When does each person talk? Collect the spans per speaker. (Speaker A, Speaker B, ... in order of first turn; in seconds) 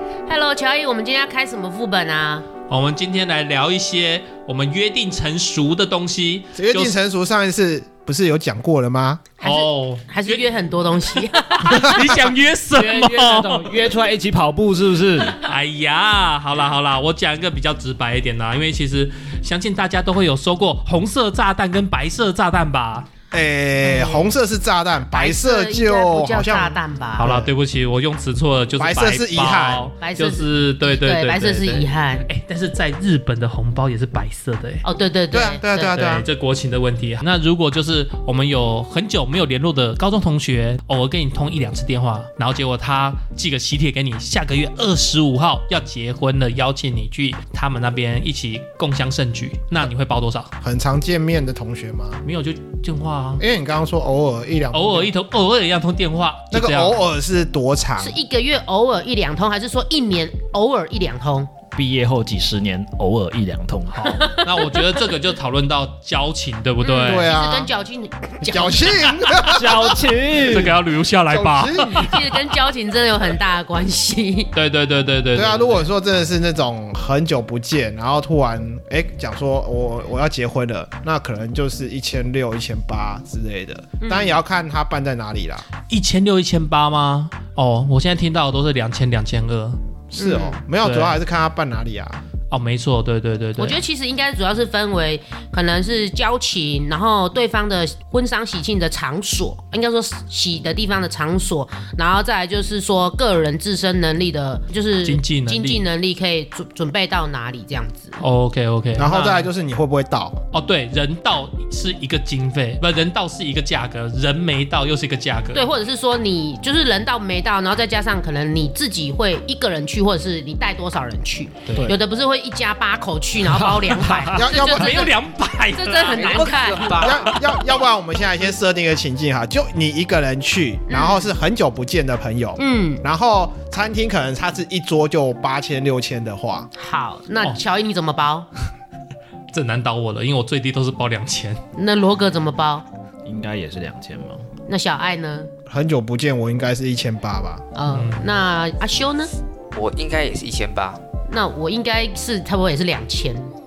Speaker A: 0.3-2.5, 9.4-11.9, 23.8-24.3, 25.1-27.3, 30.0-32.2, 34.8-36.0, 58.0-61.5, 64.1-64.9, 66.8-69.1, 72.0-74.5, 84.0-84.4, 90.2-90.6, 93.6-108.2, 115.5-125.2, 125.7-127.4, 130.9-131.3, 132.6-133.0, 136.8-138.5, 141.8-142.8, 144.7-145.5, 147.8-149.3, 151.3-153.5
Speaker B: 2.7-7.0, 9.4-10.5, 11.1-13.8, 15.4-23.1, 27.2-34.8, 35.9-50.5, 52.2-53.4, 54.7-57.0, 63.9-67.4, 70.3-72.4, 74.5-75.9, 85.9-89.8, 90.8-91.2, 92.5-93.8, 105.0-105.8, 108.2-109.5, 110.5-115.7, 124.4-127.5, 139.5-141.6, 147.9-148.3
Speaker C: 6.6-9.2, 23.3-27.5, 28.8-29.8, 35.3-36.3, 50.6-52.2, 53.4-55.1, 56.5-58.2, 67.0-67.7, 68.4-70.8, 71.3-72.2, 75.3-85.7, 90.1-92.2, 109.0-110.4, 124.3-125.1, 127.0-136.7, 145.7-147.6
Speaker D: 12.7-15.4, 61.7-64.2, 69.5-70.8, 123.5-124.3, 143.3-144.5
Speaker E: 126.0-127.3, 149.7-151.0